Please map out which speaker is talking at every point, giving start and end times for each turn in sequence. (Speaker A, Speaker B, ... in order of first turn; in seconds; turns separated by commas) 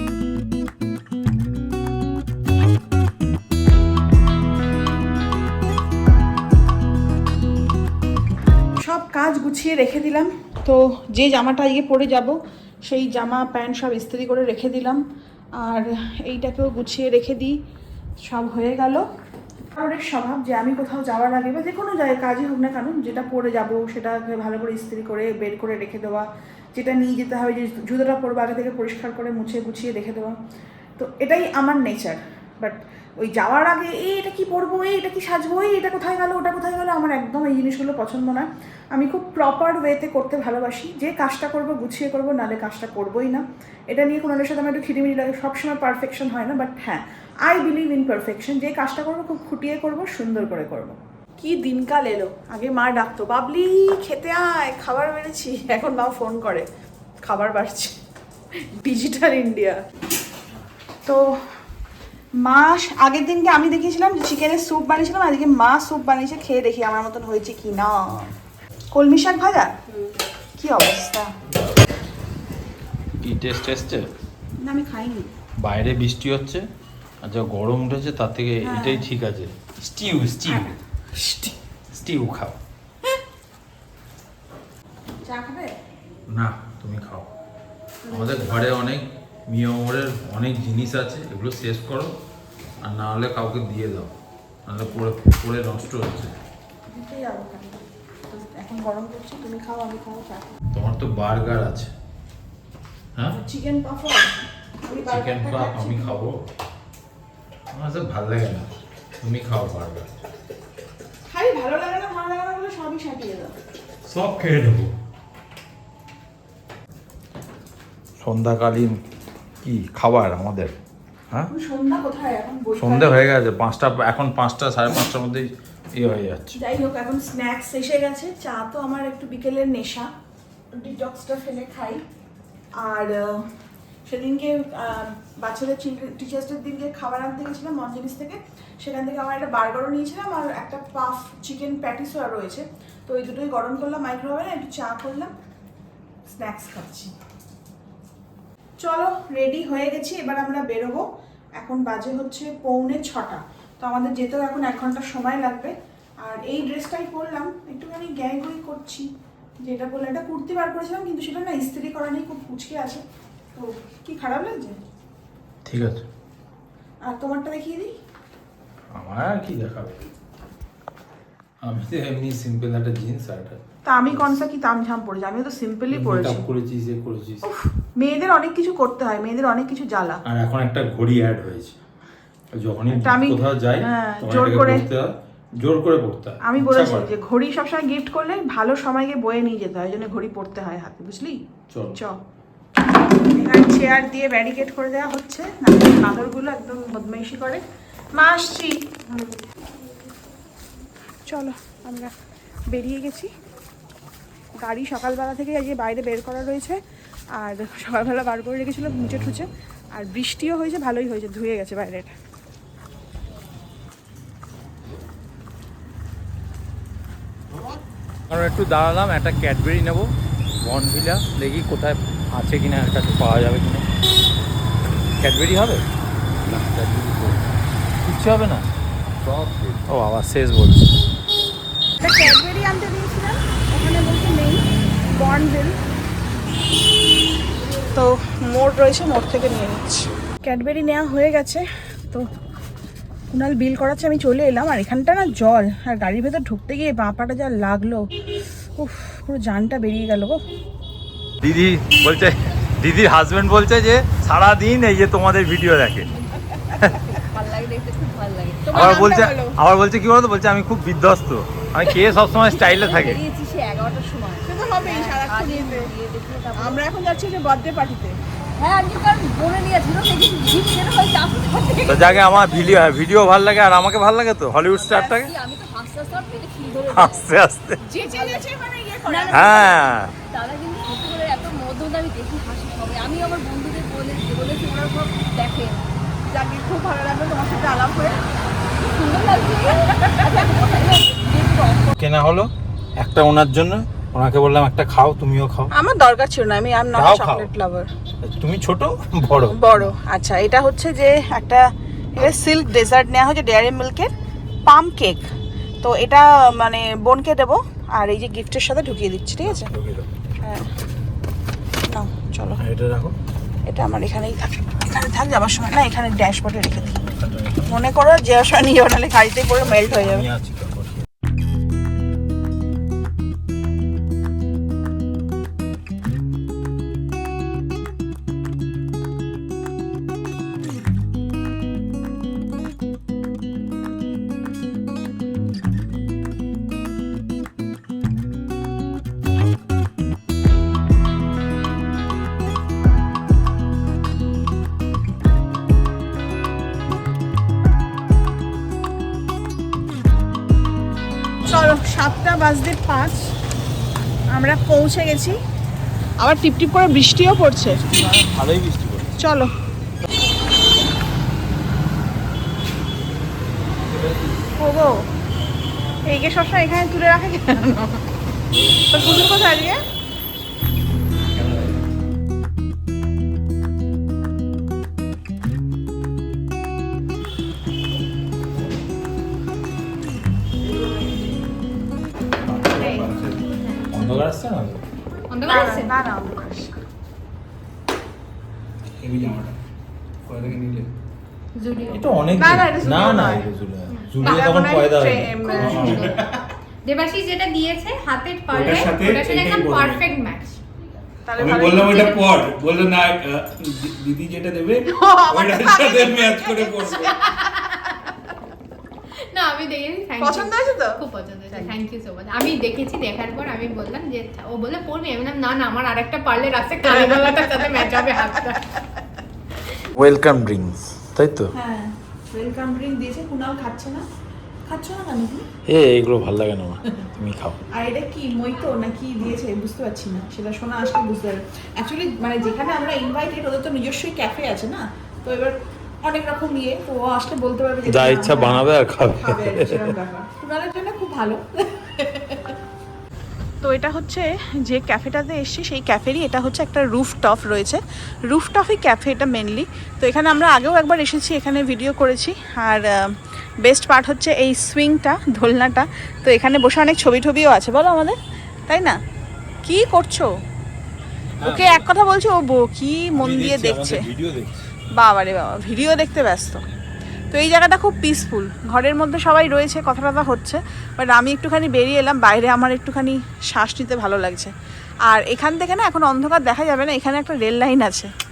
Speaker A: 8.8-15.0, Speaker A: 15.6-17.5, Speaker A: 18.2-19.0, Speaker A: 19.7-30.3, Speaker A: 31.0-56.6, Speaker A: 57.2-58.0, Speaker A: 58.8-59.8, Speaker A: 61.0-61.3, Speaker A: 62.4-68.3, Speaker A: 68.9-69.7, Speaker A: 70.6-71.3, Speaker B: 73.2-74.0, Speaker A: 74.6-75.3, Speaker B: 75.6-76.6, Speaker B: 77.2-80.7, Speaker A: 78.6-79.0, Speaker A: 80.5-81.5, Speaker B: 81.9-82.6, Speaker A: 85.2-85.7, Speaker B: 86.3-87.3, Speaker A: 88.0-88.7, Speaker B: 88.1-92.1, Speaker B: 92.8-94.1, Speaker B: 94.7-96.3, Speaker A: 96.9-100.5, Speaker B: 100.7-101.9, Speaker A: 103.3-106.1, Speaker B: 105.0-106.3, Speaker B: 107.7-108.7, Speaker B: 109.2-110.1, Speaker A: 111.3-113.5, Speaker B: 114.0-114.9, Speaker B: 118.2-119.0, Speaker B: 119.6-120.7, Speaker A: 121.5-123.2, Speaker B: 122.8-126.6, Speaker A: 126.5-130.1, Speaker A: 130.8-132.0, Speaker A: 132.8-133.4, Speaker A: 134.1-145.3, Speaker A: 146.3-147.1, Speaker A: 148.8-151.0, Speaker A: 151.6-159.1, Speaker A: 159.6-163.0, Speaker A: 163.5-164.8, Speaker B: 165.6-166.1, Speaker A: 167.0-167.9, Speaker B: 168.9-170.0, Speaker B: 171.6-174.4, Speaker A: 173.8-176.4, Speaker B: 175.9-177.4, Speaker A: 177.4-180.2, Speaker B: 180.2-181.8, Speaker B: 182.5-185.1, Speaker A: 182.9-184.8, Speaker B: 185.6-187.1, Speaker A: 186.4-191.4, Speaker B: 191.7-192.0, Speaker A: 193.3-197.6, Speaker A: 198.1-199.4, Speaker A: 201.3-202.1, Speaker A: 202.7-203.3, Speaker A: 204.6-206.8, Speaker A: 207.4-212.1, Speaker B: 218.3-220.1, Speaker B: 220.6-223.8, Speaker B: 225.2-225.8, Speaker B: 226.5-227.3, Speaker B: 228.0-228.7, Speaker B: 229.2-230.9, Speaker A: 232.0-235.8, Speaker A: 237.9-242.2, Speaker A: 243.3-248.1, Speaker A: 248.8-250.4, Speaker B: 251.4-256.1, Speaker C: 257.0-258.7, Speaker A: 258.6-259.6, Speaker B: 258.7-263.2, Speaker C: 262.6-266.8, Speaker A: 264.4-265.9, Speaker A: 266.5-268.2, Speaker C: 268.6-272.4, Speaker B: 271.9-275.3, Speaker C: 274.7-277.2, Speaker B: 276.9-277.8, Speaker A: 277.8-279.7, Speaker C: 279.1-285.8, Speaker B: 279.3-280.1, Speaker A: 286.3-288.2, Speaker C: 288.9-291.9, Speaker A: 289.6-290.7, Speaker B: 292.0-295.7, Speaker A: 295.7-297.9, Speaker B: 296.9-297.5, Speaker B: 298.2-299.9, Speaker A: 299.4-301.6, Speaker A: 302.1-304.1, Speaker A: 304.6-305.2, Speaker A: 305.8-309.7, Speaker B: 309.4-310.1, Speaker A: 310.4-310.7, Speaker A: 311.9-312.6, Speaker B: 312.6-313.1, Speaker A: 313.6-316.9, Speaker B: 316.7-317.8, Speaker A: 317.7-320.2, Speaker B: 319.6-321.0, Speaker A: 351.5-353.2, Speaker A: 354.3-355.4, Speaker A: 356.2-357.9, Speaker B: 357.9-359.2, Speaker A: 359.2-359.5, Speaker B: 363.9-364.4, Speaker A: 364.6-365.0, Speaker A: 366.1-368.0, Speaker A: 368.9-369.8, Speaker B: 371.3-371.8, Speaker D: 382.5-383.5, Speaker A: 382.7-383.1, Speaker B: 383.9-384.8, Speaker E: 385.3-386.0, Speaker A: 385.4-386.7, Speaker D: 389.0-389.5, Speaker D: 390.2-390.9, Speaker E: 391.5-392.2, Speaker B: 391.9-395.4, Speaker A: 392.3-393.4, Speaker E: 393.9-394.5, Speaker A: 394.2-396.1, Speaker E: 395.4-396.2, Speaker D: 395.5-396.4, Speaker E: 396.8-400.6, Speaker D: 398.5-400.1, Speaker A: 401.3-402.3, Speaker D: 401.4-407.3, Speaker A: 404.9-407.1, Speaker E: 407.1-408.1, Speaker E: 409.3-418.7, Speaker A: 410.2-411.7, Speaker A: 416.9-418.9, Speaker B: 419.9-421.5, Speaker A: 421.5-424.0, Speaker A: 424.7-425.4, Speaker B: 425.7-427.6, Speaker A: 427.7-442.5, Speaker B: 437.9-439.9, Speaker A: 443.6-453.1, Speaker A: 453.6-458.1, Speaker A: 458.7-459.0, Speaker A: 459.6-460.3, Speaker A: 461.4-464.1, Speaker B: 461.4-461.8, Speaker B: 463.1-464.6, Speaker A: 464.9-466.6, Speaker A: 467.3-474.5, Speaker A: 475.1-478.1